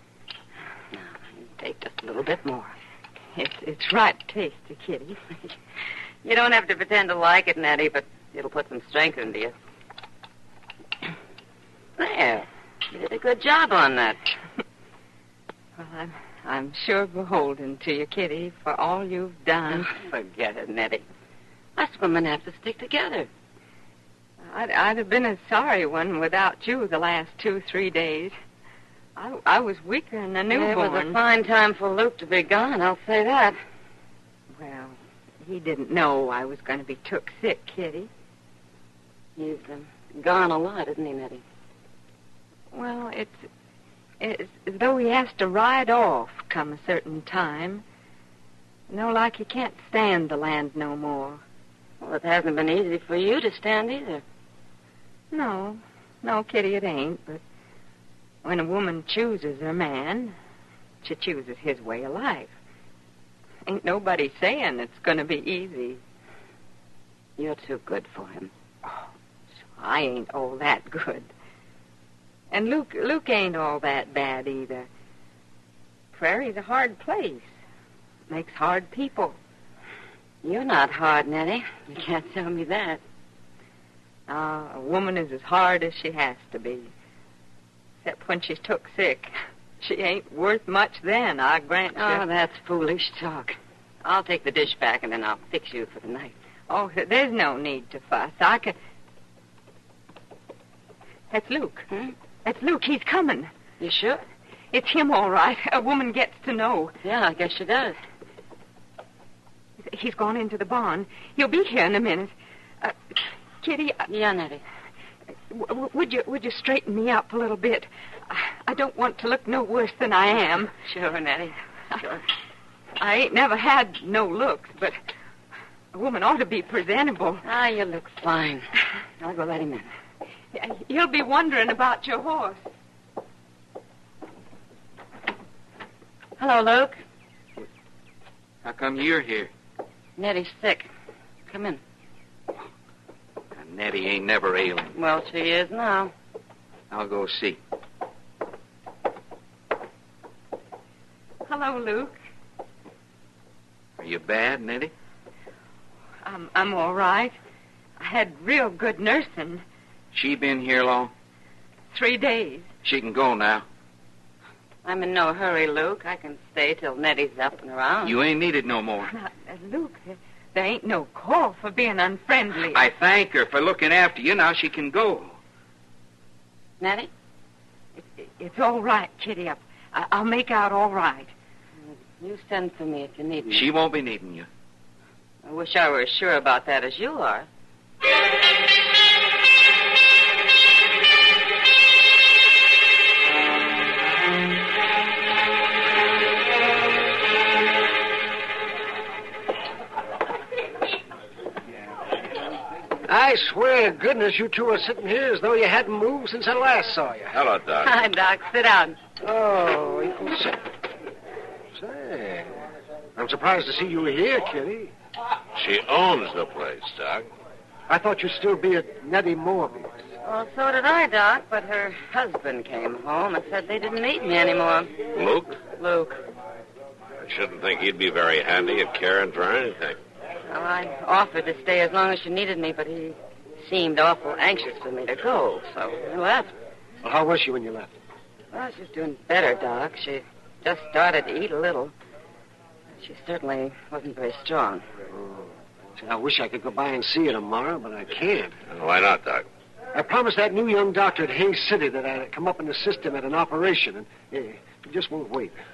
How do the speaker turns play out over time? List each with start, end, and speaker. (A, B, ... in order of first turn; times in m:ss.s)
0:00.9-0:02.7 A
0:03.3-0:05.2 B
0:06.2-0:09.5 A
0:12.0-0:14.2 A
0:15.8-0:19.9 B
0:19.7-0:21.0 A
0:21.8-0:23.3 A
0:24.4-0:28.3 B
0:29.2-0:31.2 B
0:30.5-0:33.6 A
0:34.5-0:38.1 B
0:39.4-0:41.4 A
0:42.7-0:43.4 B
0:44.2-0:47.8 B
0:48.9-0:51.4 B
0:52.0-0:54.2 A
0:55.3-0:57.4 B
0:58.4-1:00.3 B
1:01.0-1:02.5 B
1:03.6-1:06.0 B
1:07.4-1:08.5 A
1:09.8-1:11.3 B
1:12.5-1:14.9 B
1:16.1-1:17.5 B
1:18.3-1:19.4 B
1:20.4-1:23.0 A
1:24.3-1:26.9 B
1:28.0-1:32.2 B
1:31.9-1:36.3 A
1:36.7-1:38.8 B
1:41.3-1:41.9 B
1:42.4-1:43.5 B
1:43.8-1:44.2 A
1:44.7-1:46.9 B
1:47.0-1:48.0 A
1:49.8-1:53.0 B
1:53.6-1:54.1 B
1:54.1-1:54.6 A
1:55.5-2:00.7 B
2:00.8-2:02.2 A
2:03.0-2:05.0 B
2:05.9-2:07.4 B
2:07.4-2:08.7 A
2:09.2-2:09.9 A
2:10.5-2:12.6 B
2:16.4-2:16.9 A
2:18.6-2:19.5 C
2:20.2-2:20.9 A
2:21.5-2:21.8 A
2:23.5-2:25.0 C
2:24.9-2:26.1 A
2:26.9-2:27.6 C
2:31.4-2:32.2 B
2:34.0-2:34.9 C
2:36.2-2:37.3 B
2:38.0-2:39.6 B
2:40.1-2:41.1 C
2:41.9-2:42.7 B
2:42.8-2:43.6 C
2:44.8-2:48.1 A
2:48.0-2:49.1 C
2:49.1-2:52.8 B
2:52.7-2:55.4 C
2:56.8-2:57.1 A
2:58.0-3:01.3 B
3:01.8-3:03.7 A
3:03.5-3:04.5 C
3:05.4-3:07.5 A
3:23.1-3:27.4 D
3:27.3-3:27.9 E
3:27.8-3:29.0 A
3:29.2-3:30.6 D
3:31.7-3:32.6 D
3:33.2-3:34.9 D
3:35.6-3:37.3 E
3:37.9-3:39.9 D
3:40.2-3:45.0 A
3:45.1-3:45.6 E
3:45.6-3:46.2 A
3:47.2-3:50.0 E
3:50.5-3:56.5 A
3:57.0-3:57.9 D
3:58.5-4:01.9 A
4:03.0-4:04.8 A
4:05.1-4:08.5 D
4:08.7-4:09.4 E
4:09.9-4:15.6 D